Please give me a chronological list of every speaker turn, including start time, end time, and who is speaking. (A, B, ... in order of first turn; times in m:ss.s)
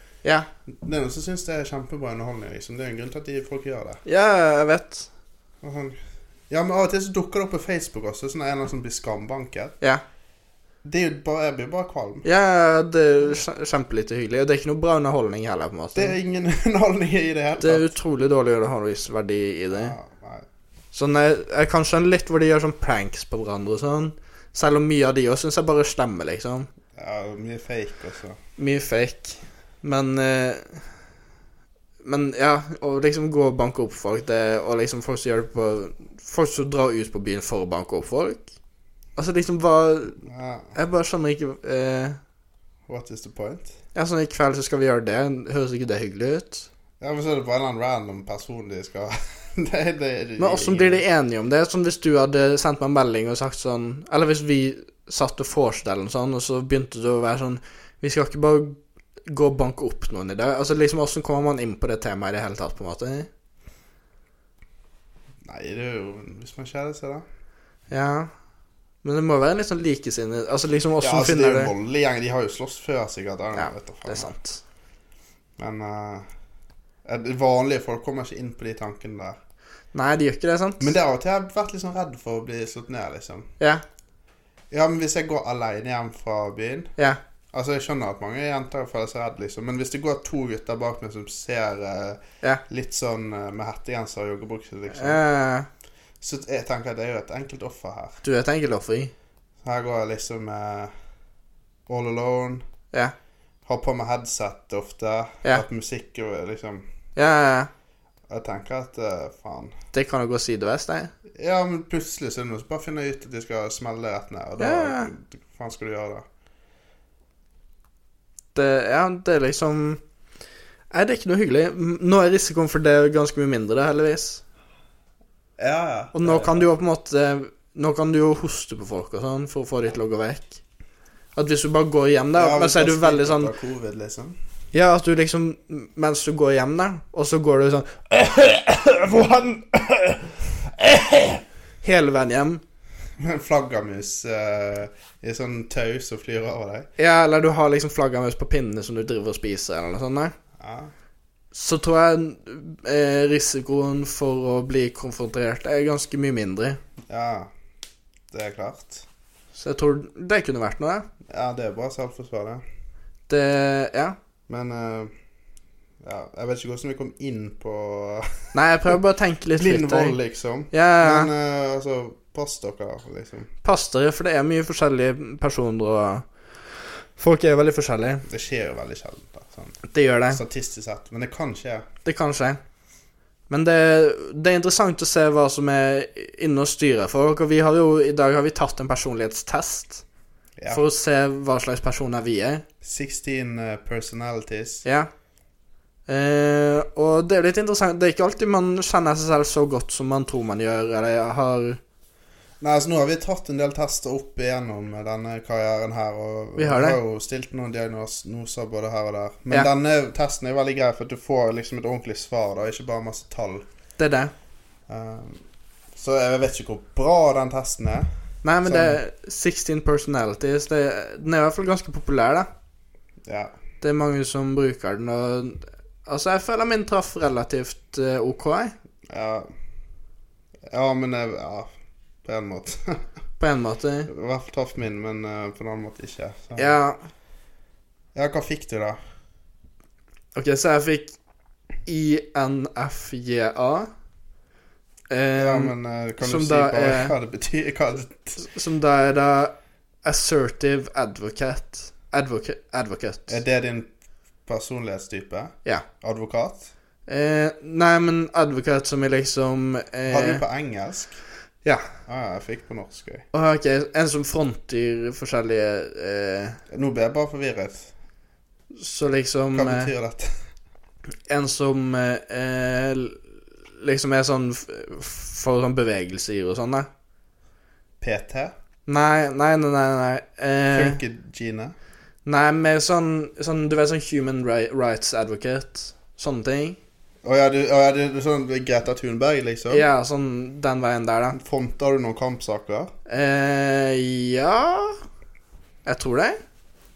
0:00.2-0:00.5 A
0:00.7-0:04.0 B
0:04.0-0:05.1 A
0:05.6-0:06.0 B
0:06.5-0:09.8 B
0:10.8-0:12.2 B
0:12.2-0:16.1 A
0:15.9-0:17.9 B
0:17.6-0:19.9 A
0:19.7-0:20.5 B
0:20.9-0:26.7 A
0:26.9-0:28.4 B
0:28.6-0:30.8 A
0:32.0-0:38.5 A
0:39.2-0:40.2 A
0:40.2-0:40.7 B
0:40.7-0:42.2 A
0:42.9-0:43.7 B
0:43.9-0:46.7 A
0:47.0-0:51.0 B
0:50.4-1:03.3 A
1:05.4-1:07.2 B
1:07.9-1:08.3 A
1:09.0-1:11.7 A
1:11.0-1:14.3 B
1:13.6-1:14.6 A
1:15.6-1:16.3 B
1:17.0-1:19.4 B
1:19.9-1:20.9 A
1:20.8-1:23.5 B
1:24.7-1:26.9 B
1:27.5-1:35.2 B
1:34.9-1:35.7 A
1:36.2-1:38.2 B
1:38.2-1:39.1 A
1:39.6-1:40.9 B
1:41.9-1:42.6 B
1:43.6-1:46.8 B
1:47.2-1:47.7 A
1:48.3-1:49.7 B
1:49.9-1:51.1 A
1:51.4-1:56.2 B
1:54.6-1:55.1 A
1:58.5-2:00.0 A
2:00.9-2:04.4 A
2:05.6-2:06.7 B
2:06.1-2:10.6 A
2:11.3-2:13.5 A
2:12.4-2:14.4 B
2:14.7-2:22.6 A
2:23.2-2:26.9 B
2:27.0-2:30.3 A
2:30.6-2:30.9 B
2:31.5-2:36.8 A
2:37.1-2:37.5 B
2:38.3-2:39.0 B
2:39.5-2:41.1 A
2:41.3-2:42.6 B
2:43.3-2:44.2 A
2:44.5-2:45.1 B
2:46.0-2:48.9 B
2:48.5-2:50.2 A
2:49.6-2:53.5 B
2:50.7-2:51.3 A
2:53.6-2:58.2 A
2:58.3-2:59.8 B
2:59.8-3:00.4 A
3:00.3-3:01.8 B
3:02.0-3:02.6 A
3:03.5-3:10.0 A
3:10.6-3:10.8 B
3:10.7-3:12.6 A
3:12.8-3:14.8 B
3:14.8-3:15.1 A
3:16.1-3:21.8 A
3:22.6-3:33.6 B
3:26.6-3:27.0 A
3:34.0-3:34.3 A
3:34.9-3:35.4 B
3:35.9-3:38.1 B
3:38.4-3:42.5 A
3:38.6-3:39.0 B
3:43.2-3:43.5 B
3:43.8-3:48.7 A
3:49.1-3:49.5 B
3:50.7-3:51.7 B
3:52.2-3:53.0 B
3:53.4-3:54.1 A
3:54.1-3:56.7 B
3:56.6-3:57.0 A
3:58.1-3:59.0 B
4:00.3-4:01.2 A
4:01.8-4:03.9 A
4:05.1-4:07.1 A
4:05.4-4:08.4 B
4:08.4-4:13.4 A
4:13.3-4:13.9 B
4:14.4-4:16.7 B
4:17.1-4:20.4 A
4:20.1-4:21.2 B
4:21.6-4:21.9 A
4:22.1-4:23.2 B
4:23.3-4:26.6 A
4:26.7-4:27.9 B
4:28.7-4:29.9 A
4:29.5-4:30.4 B
4:31.3-4:33.2 A
4:33.8-4:36.9 A
4:38.0-4:38.5 B
4:38.8-4:41.0 A
4:40.7-4:41.7 B
4:42.2-4:46.8 A
4:47.2-4:49.8 B
4:49.7-4:51.4 A
4:51.3-4:52.9 B
4:53.1-4:55.0 A
4:55.8-4:56.4 A